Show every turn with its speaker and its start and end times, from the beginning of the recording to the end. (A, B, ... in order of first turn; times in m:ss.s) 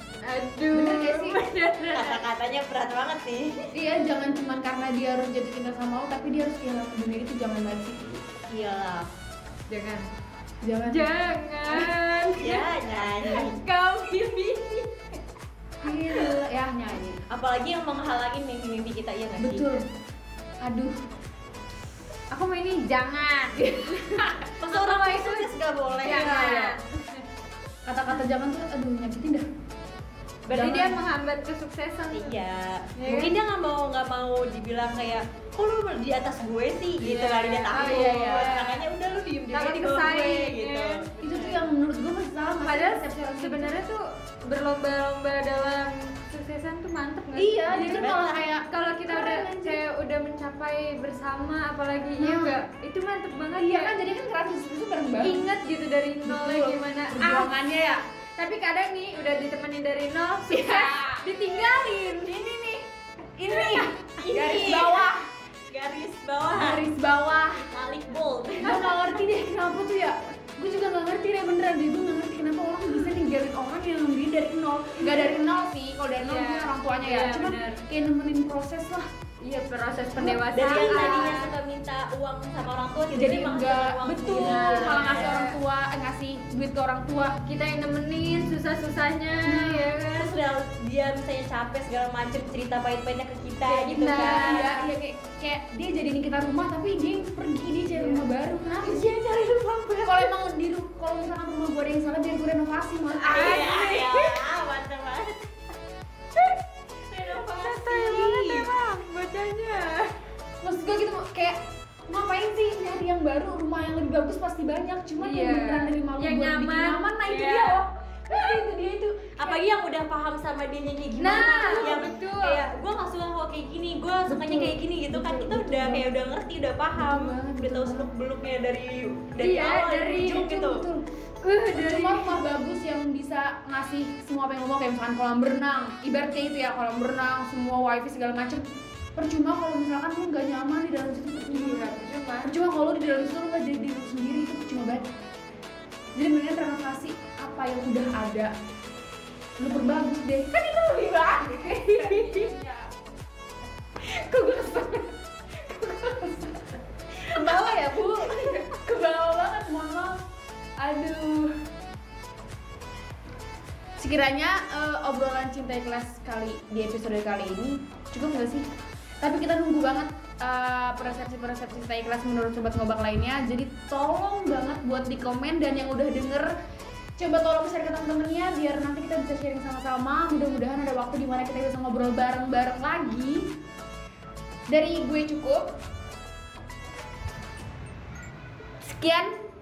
0:00.2-0:02.2 A
0:00.7-0:01.4 B
0:01.9-0:03.7 C
0:03.7-0:08.2 B
0:08.5-0:09.1 C
0:09.7-0:10.1 A
0:10.6-0:11.1 B
0:10.9-0:12.7 A
0:11.7-0:12.2 B
0:12.4-0:13.6 C
0:13.2-0:14.9 A
0:15.8-0:17.2 B
0:15.9-0:16.4 A
0:17.3-0:19.8 C
0:19.4-0:19.8 B
0:20.6-0:21.0 B
0:22.3-0:27.2 A
0:24.6-0:26.6 C
0:26.0-0:26.8 B
0:27.9-0:29.4 B
0:30.5-0:32.4 A
0:30.5-0:31.0 B
0:32.1-0:41.6 C
0:33.0-0:33.3 A
0:37.0-0:38.5 B
0:37.7-0:38.9 A
0:39.5-0:41.2 A
0:41.2-0:43.8 B
0:42.6-0:48.1 A
0:47.4-0:48.4 C
0:47.4-0:49.8 B
0:48.7-0:54.0 A
0:52.2-0:52.6 B
0:53.5-0:55.4 B
0:55.2-0:57.5 A
0:56.2-0:58.0 B
0:58.4-1:02.6 A
1:00.5-1:01.2 B
1:03.4-1:05.3 B
1:03.8-1:05.2 C
1:05.7-1:06.9 C
1:06.6-1:07.7 B
1:07.6-1:08.8 C
1:08.6-1:19.1 B
1:15.0-1:15.4 A
1:16.2-1:17.8 A
1:19.4-1:21.5 A
1:20.2-1:21.4 B
1:20.5-1:25.4 C
1:23.1-1:27.4 B
1:24.3-1:25.6 A
1:27.4-1:30.3 A
1:29.4-1:30.4 B
1:30.2-1:34.6 C
1:33.7-1:39.1 B
1:33.8-1:34.9 A
1:37.9-1:38.2 A
1:38.8-1:40.3 C
1:40.0-1:43.7 B
1:43.2-1:44.4 A
1:43.2-1:45.5 C
1:47.1-1:48.7 C
1:47.3-1:50.2 A
1:50.6-1:51.6 B
1:52.1-1:59.6 B
1:55.2-1:58.6 A
1:59.4-2:10.9 C
2:01.2-2:02.7 A
2:04.3-2:06.1 B
2:06.9-2:08.1 B
2:09.4-2:10.6 A
2:10.5-2:11.0 B
2:11.4-2:12.4 A
2:11.7-2:18.6 B
2:19.2-2:21.9 B
2:21.5-2:22.5 A
2:22.4-2:25.1 B
2:26.2-2:28.5 B
2:29.6-2:32.9 B
2:31.6-2:32.5 A
2:34.0-2:40.2 B
2:37.5-2:38.0 A
2:40.8-2:41.5 B
2:44.0-2:48.6 B
2:49.2-2:56.5 B
2:57.2-3:03.5 B
3:04.7-3:05.8 B
3:08.8-3:09.3 B